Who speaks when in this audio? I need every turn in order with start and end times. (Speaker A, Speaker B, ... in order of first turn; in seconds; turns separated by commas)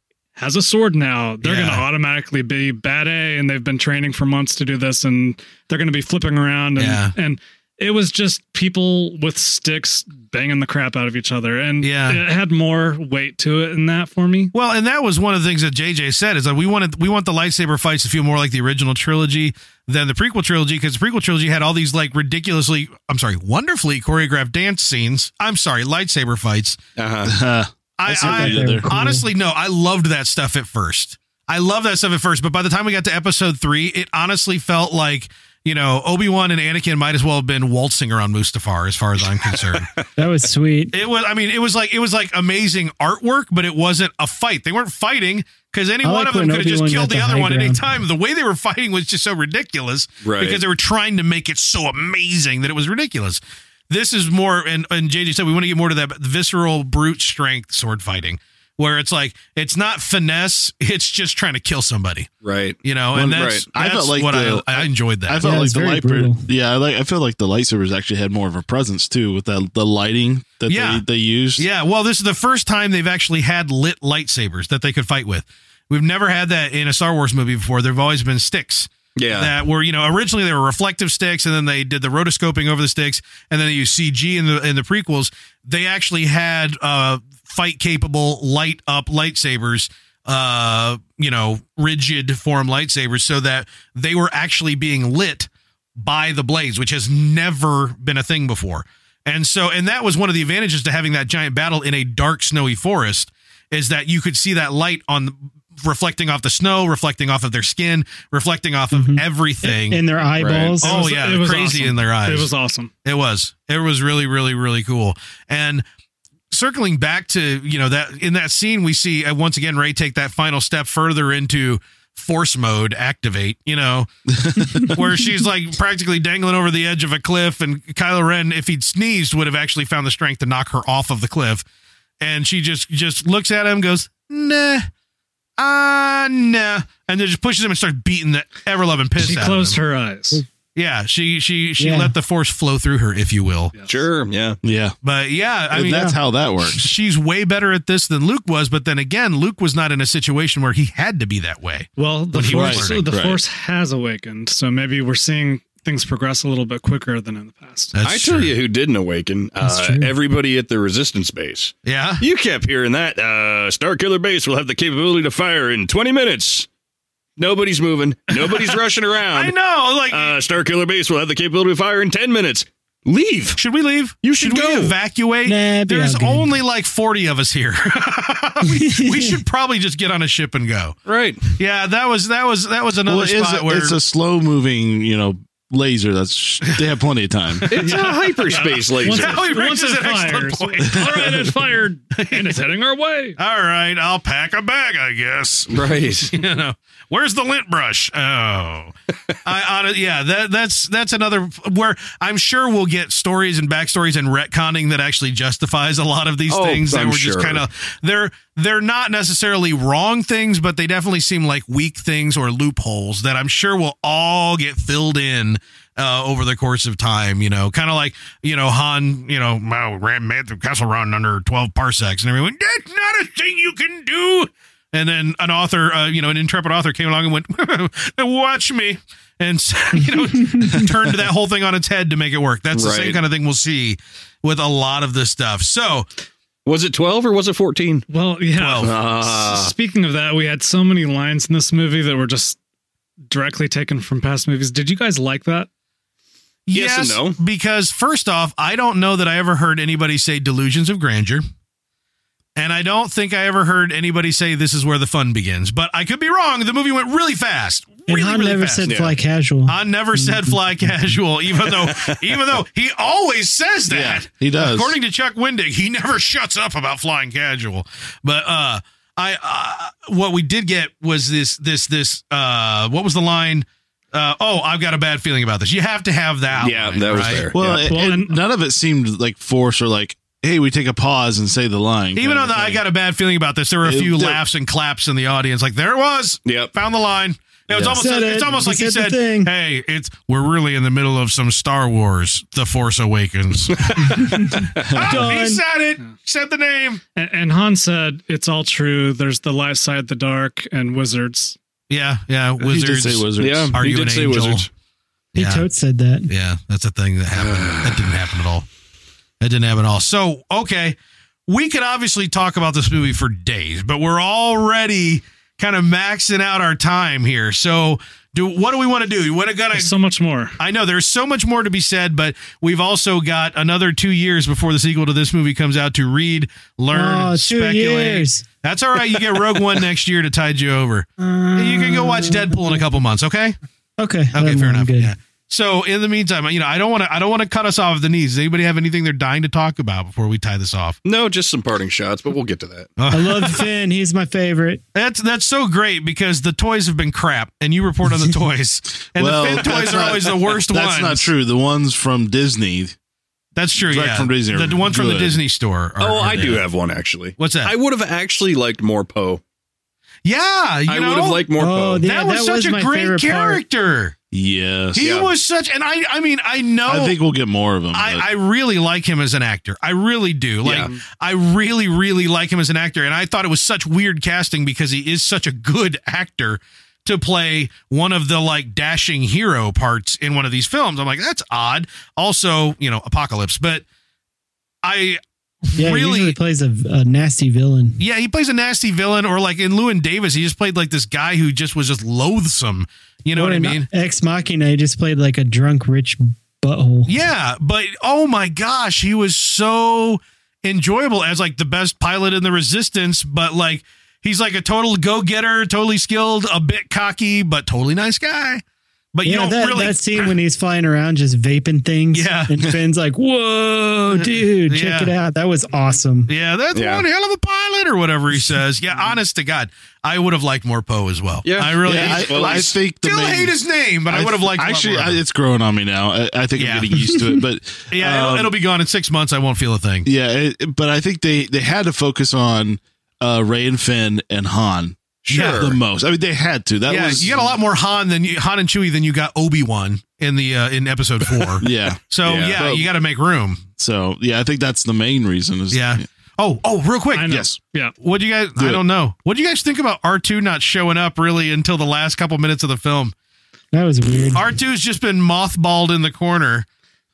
Speaker A: 0.4-14.5, Speaker B: 1.4-1.9, Speaker B: 6.8-7.1, Speaker B: 11.8-12.2, Speaker B: 14.5-26.8, Speaker C: 27.0-27.3, Speaker D: 27.2-28.9, Speaker B: 28.0-39.9, Speaker E: 28.1-29.3, Speaker C: 39.5-39.9, Speaker E: 40.2-41.0, Speaker B: 40.9-62.3, Speaker E: 46.0-48.0, Speaker C: 50.2-50.6, Speaker C: 62.4-62.8, Speaker B: 62.8-65.4, Speaker D: 63.1-71.7, Speaker C: 63.3-63.7, Speaker E: 65.4-66.5, Speaker B: 70.7-71.0, Speaker B: 71.6-110.0, Speaker C: 79.2-79.5, Speaker E: 108.9-111.1, Speaker C: 110.4-110.8, Speaker B: 110.8-112.5, Speaker A: 110.8-112.9, Speaker B: 113.0-115.8, Speaker B: 116.5-124.1, Speaker D: 124.4-125.0, Speaker B: 124.8-131.6, Speaker B: 132.2-134.9, Speaker B: 135.6-139.8, Speaker A: 139.2-140.4, Speaker B: 140.8-143.7, Speaker E: 141.8-142.1, Speaker A: 143.7-144.0, Speaker C: 143.9-144.6, Speaker D: 144.6-144.9, Speaker B: 145.0-146.1, Speaker D: 145.7-146.9, Speaker E: 145.8-146.2, Speaker B: 146.7-153.1, Speaker A: 152.0-157.9, Speaker D: 152.5-153.4, Speaker B: 157.9-158.6, Speaker C: 158.0-166.7, Speaker E: 159.6-160.1, Speaker B: 161.8-162.2, Speaker C: 167.4-169.6, Speaker B: 168.4-170.4, Speaker C: 170.1-173.6, Speaker B: 173.6-184.0, Speaker C: 174.2-175.0, Speaker E: 175.5-176.5, Speaker E: 178.7-179.4, Speaker C: 181.1-181.5, Speaker D: 183.1-187.7, Speaker B: 187.6-191.5, Speaker C: 187.7-189.4, Speaker A: 187.8-193.4, Speaker B: 192.2-192.6, Speaker B: 193.4-198.9, Speaker C: 195.7-196.3, Speaker B: 199.4-236.1, Speaker C: 206.5-207.6, Speaker E: 230.4-230.7, Speaker C: 232.7-233.2, Speaker C: 236.7-238.1, Speaker A: 238.1-242.6, Speaker B: 238.6-239.0, Speaker C: 238.8-239.7, Speaker A: 243.3-245.7, Speaker B: 246.7-251.4, Speaker C: 246.7-247.4, Speaker B: 252.6-258.9, Speaker E: 258.1-260.9, Speaker C: 258.9-259.1, Speaker B: 259.7-277.5, Speaker C: 261.6-262.2, Speaker D: 263.9-264.9, Speaker C: 276.5-277.8, Speaker D: 277.5-282.8, Speaker A: 277.9-278.4, Speaker B: 282.2-297.0, Speaker D: 283.8-284.4, Speaker C: 286.4-286.7, Speaker E: 287.9-289.5, Speaker C: 293.8-294.9, Speaker E: 294.3-295.6, Speaker D: 294.9-295.2, Speaker A: 297.2-301.6, Speaker B: 301.9-304.7, Speaker D: 302.6-303.8, Speaker C: 303.4-304.7, Speaker B: 305.3-305.6, Speaker E: 305.4-306.3, Speaker B: 306.3-308.7, Speaker C: 307.3-308.2, Speaker B: 309.4-319.9, Speaker A: 319.7-320.6, Speaker B: 320.6-333.6, Speaker E: 326.9-328.4, Speaker E: 331.2-332.8, Speaker E: 334.0-335.1, Speaker B: 334.3-341.0, Speaker C: 341.1-342.9, Speaker B: 343.0-343.7, Speaker E: 343.1-344.8, Speaker B: 344.9-351.3, Speaker D: 349.2-352.9, Speaker B: 353.6-356.6, Speaker D: 353.8-355.4, Speaker C: 356.0-359.4, Speaker B: 357.4-357.7, Speaker B: 360.2-361.4, Speaker C: 360.9-362.0, Speaker E: 361.6-363.6, Speaker B: 362.0-364.2, Speaker D: 364.3-365.2, Speaker B: 364.9-367.2, Speaker C: 365.0-365.3, Speaker D: 366.9-368.2, Speaker B: 367.9-383.9, Speaker C: 370.6-371.0, Speaker B: 384.8-386.4, Speaker E: 385.8-388.0, Speaker B: 388.0-393.9, Speaker E: 393.4-397.2, Speaker B: 397.1-408.6, Speaker B: 409.1-410.3, Speaker E: 409.2-416.3, Speaker B: 412.1-412.6, Speaker B: 414.7-415.1, Speaker B: 416.3-425.2, Speaker C: 416.7-417.1, Speaker C: 421.4-422.8, Speaker D: 421.9-423.6, Speaker D: 424.1-428.5, Speaker B: 426.6-427.0, Speaker B: 427.9-430.1, Speaker D: 430.1-437.5, Speaker C: 435.3-435.8, Speaker B: 435.3-435.7, Speaker B: 436.9-443.6, Speaker D: 441.6-442.0, Speaker C: 442.2-442.8, Speaker D: 442.6-442.8, Speaker D: 443.8-446.0, Speaker B: 445.7-447.4, Speaker A: 447.1-447.9, Speaker D: 447.3-447.6, Speaker B: 448.0-453.1, Speaker D: 448.6-448.8, Speaker E: 453.7-454.6, Speaker B: 454.3-456.7